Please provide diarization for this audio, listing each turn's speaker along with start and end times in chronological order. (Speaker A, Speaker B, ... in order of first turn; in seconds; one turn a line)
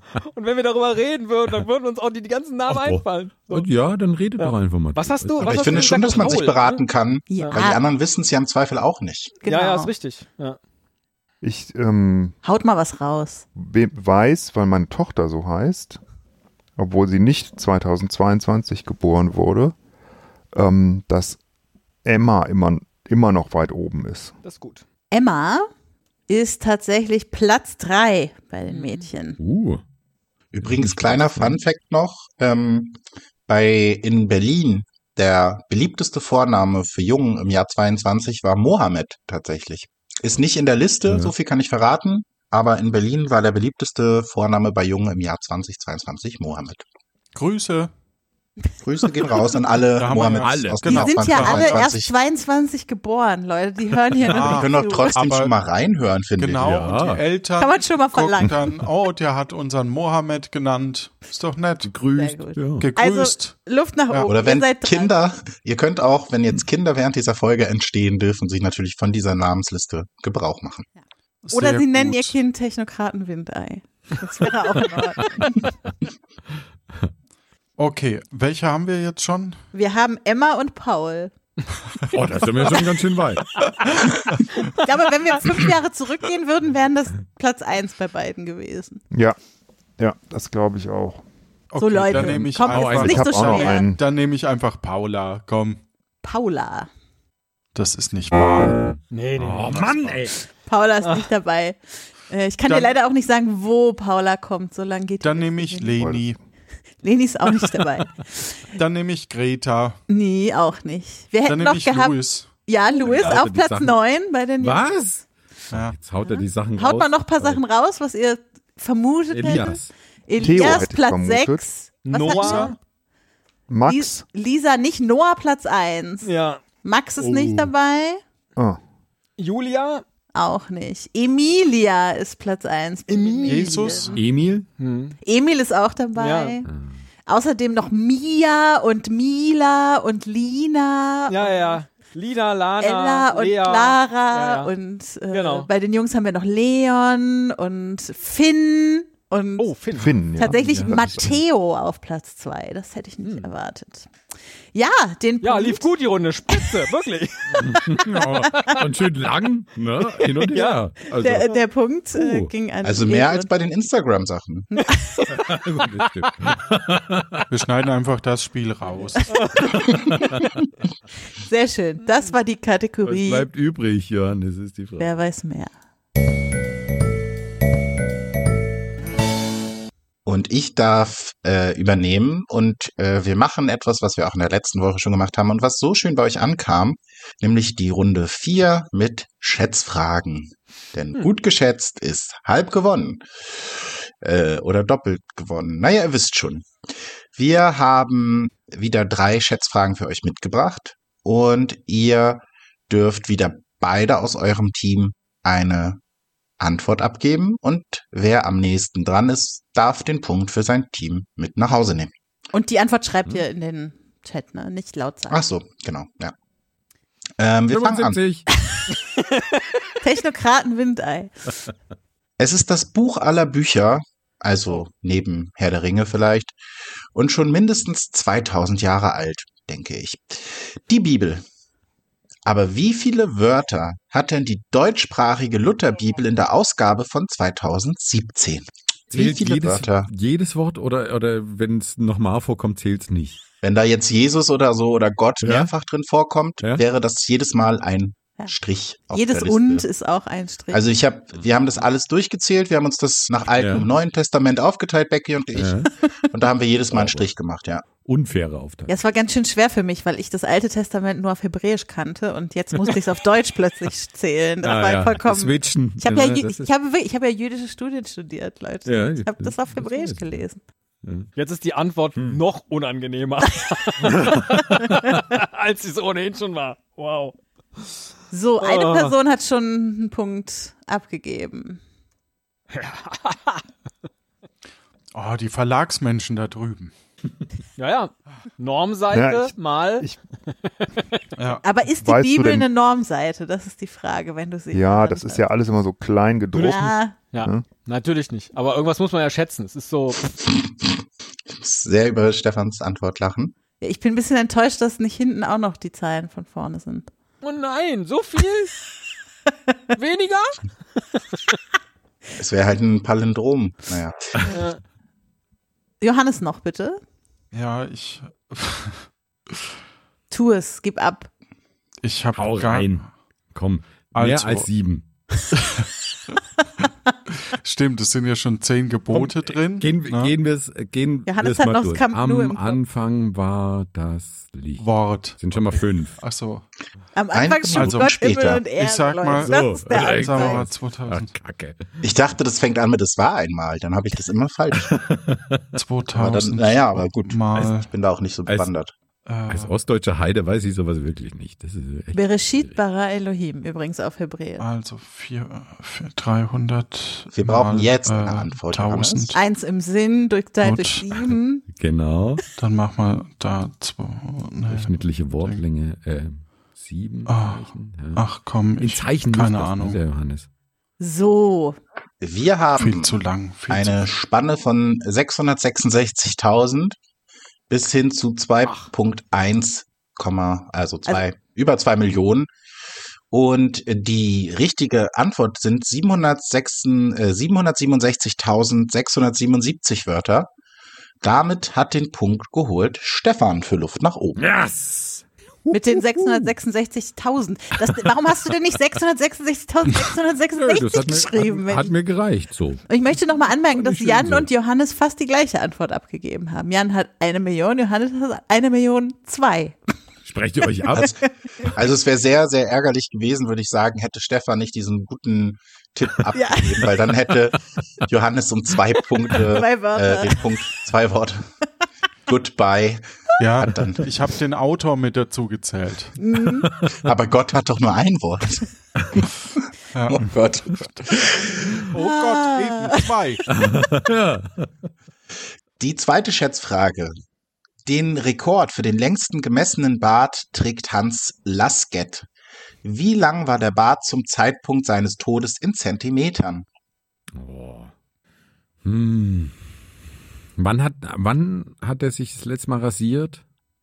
Speaker A: 0.2-3.6
Speaker B: 2.7-6.5
Speaker A: 4.4-6.8
Speaker C: 5.4-9.3
Speaker D: 7.3-7.8
Speaker D: 9.4-9.9
Speaker A: 9.5-10.6
Speaker E: 11.4-12.4
Speaker D: 12.4-13.4
Speaker E: 13.6-16.0
Speaker E: 16.8-19.8
Speaker E: 20.5-21.4
Speaker E: 22.1-24.4
Speaker A: 24.4-24.8
Speaker D: 25.1-25.7
Speaker D: 26.3-29.4
Speaker A: 28.7-29.1
Speaker B: 29.4-29.8
Speaker C: 30.5-46.8
Speaker B: 30.6-31.6
Speaker B: 41.0-41.3
Speaker F: 47.3-47.9
Speaker C: 48.8-52.1
Speaker F: 50.0-51.9
Speaker B: 50.2-51.3
Speaker D: 50.9-55.2
Speaker F: 54.3-55.5
Speaker C: 54.4-56.8
Speaker F: 56.4-61.9
Speaker B: 56.6-57.2
Speaker D: 57.6-58.5
Speaker B: 61.8-62.9
Speaker D: 62.1-65.1
Speaker F: 62.8-63.6
Speaker C: 64.3-70.9
Speaker F: 71.5-72.3
Speaker D: 71.5-75.7
Speaker F: 77.8-79.6
Speaker D: 79.7-81.3
Speaker B: 82.1-83.6
Speaker D: 84.8-89.0
Speaker E: 89.1-89.4
Speaker E: 90.0-91.2
Speaker F: 91.7-95.8
Speaker D: 91.8-93.9
Speaker B: 92.1-93.6
Speaker E: 93.0-94.0
Speaker D: 96.2-96.9
Speaker F: 97.8-98.8
Speaker B: 98.9-100.4
Speaker A: 99.1-100.2
Speaker D: 100.7-106.0
Speaker F: 102.7-103.0
Speaker F: 105.2-106.4
Speaker D: 107.0-108.6
Speaker F: 108.8-110.0
Speaker D: 110.1-115.0
Speaker F: 111.5-112.5
Speaker B: 113.0-114.0
Speaker B: 114.6-117.6
Speaker F: 115.7-116.0
Speaker D: 116.2-122.8
Speaker B: 119.3-119.9
Speaker E: 120.4-121.7
Speaker A: 122.1-122.8
Speaker E: 123.7-124.2
Speaker D: 123.9-126.3
Speaker A: 126.2-126.6
Speaker D: 126.8-128.2
Speaker A: 129.4-130.0
Speaker D: 130.3-134.2
Speaker A: 133.1-133.7
Speaker F: 133.4-134.2
Speaker B: 134.1-134.7
Speaker A: 134.8-135.2
Speaker D: 135.2-136.7
Speaker A: 136.2-136.6
Speaker D: 137.3-141.8
Speaker A: 141.3-144.7
Speaker D: 142.8-149.7
Speaker A: 145.3-145.7
Speaker A: 149.6-150.2
Speaker E: 149.9-151.2
Speaker D: 150.4-154.1
Speaker B: 150.5-151.2
Speaker A: 153.2-153.5
Speaker D: 154.7-155.9
Speaker A: 155.4-157.9
Speaker B: 157.5-161.5
Speaker A: 160.4-160.8
Speaker D: 161.2-163.5
Speaker B: 162.2-162.5
Speaker C: 162.8-164.7
Speaker D: 164.7-165.2
Speaker B: 165.3-167.5
Speaker F: 167.5-169.4
Speaker B: 170.2-170.4
Speaker D: 171.4-173.5
Speaker B: 173.0-175.1
Speaker D: 175.0-175.7
Speaker C: 180.3-196.7
Speaker C: 197.3-206.0
Speaker C: 206.6-212.1
Speaker D: 212.5-215.4
Speaker C: 215.3-216.3
Speaker C: 217.4-218.2
Speaker B: 217.7-218.5
Speaker D: 220.0-221.3
Speaker C: 222.4-226.6
Speaker C: 227.1-231.4
Speaker C: 232.5-240.1
Speaker B: 239.1-243.4
Speaker C: 243.6-249.9
Speaker B: 245.4-245.7
Speaker D: 249.1-250.8
Speaker C: 250.7-257.9
Speaker B: 253.6-253.9
Speaker B: 255.5-255.9
Speaker B: 256.9-257.3
Speaker B: 258.0-258.9
Speaker D: 258.9-270.6
Speaker B: 264.6-266.7
Speaker B: 268.9-270.4
Speaker B: 271.0-271.3
Speaker A: 271.4-277.4
Speaker B: 274.1-275.0
Speaker D: 278.3-281.8
Speaker A: 278.6-279.1
Speaker A: 282.7-283.6
Speaker F: 285.1-286.9
Speaker A: 287.8-290.1
Speaker E: 289.1-290.2
Speaker F: 291.4-291.6
Speaker D: 291.6-295.4
Speaker E: 292.0-292.7
Speaker E: 294.7-297.6
Speaker A: 296.5-296.8
Speaker D: 296.6-297.2
Speaker A: 297.3-300.6
Speaker C: 301.5-303.5
Speaker D: 303.8-307.1
Speaker A: 307.4-308.8
Speaker A: 310.0-310.6
Speaker C: 312.4-314.3
Speaker A: 314.5-314.8
Speaker D: 316.0-317.0
Speaker F: 317.5-319.6
Speaker D: 320.3-321.3
Speaker F: 322.0-323.1
Speaker B: 322.4-325.1
Speaker F: 324.1-324.7
Speaker F: 325.5-330.3
Speaker B: 329.1-336.2
Speaker D: 331.3-332.8
Speaker F: 334.8-336.6
Speaker D: 337.1-340.6
Speaker C: 337.3-338.6
Speaker F: 337.7-338.1
Speaker F: 338.7-341.4
Speaker B: 339.4-342.0
Speaker C: 342.0-344.9
Speaker B: 344.8-345.8
Speaker F: 345.8-347.9
Speaker C: 346.1-348.9
Speaker F: 349.3-349.7
Speaker B: 349.5-352.8
Speaker D: 352.1-354.7
Speaker F: 354.6-359.4
Speaker C: 357.3-359.3
Speaker D: 359.3-361.7
Speaker F: 360.6-361.1
Speaker B: 361.7-362.4
Speaker F: 362.6-365.6
Speaker B: 364.6-368.2
Speaker F: 367.3-370.0
Speaker B: 368.8-370.5
Speaker D: 371.0-371.8
Speaker C: 372.2-377.0
Speaker F: 372.8-374.0
Speaker C: 377.7-382.5
Speaker C: 383.3-390.5
Speaker C: 391.2-394.4
Speaker B: 394.4-396.5
Speaker D: 395.7-401.9
Speaker B: 400.6-402.9
Speaker D: 402.9-409.8
Speaker B: 403.8-404.5
Speaker B: 410.2-411.1
Speaker C: 410.9-421.5
Speaker D: 416.4-416.7
Speaker D: 419.4-420.4
Speaker C: 422.3-424.1
Speaker F: 423.4-426.1
Speaker D: 426.2-426.7
Speaker B: 426.7-427.0
Speaker C: 426.9-429.3
Speaker F: 429.9-430.2
Speaker C: 430.1-431.8
Speaker F: 431.9-433.4
Speaker D: 432.0-433.0
Speaker B: 433.5-434.7
Speaker C: 435.8-437.1
Speaker C: 437.9-442.3
Speaker C: 442.8-446.7
Speaker B: 447.4-447.9
Speaker B: 448.8-449.6
Speaker B: 450.6-453.4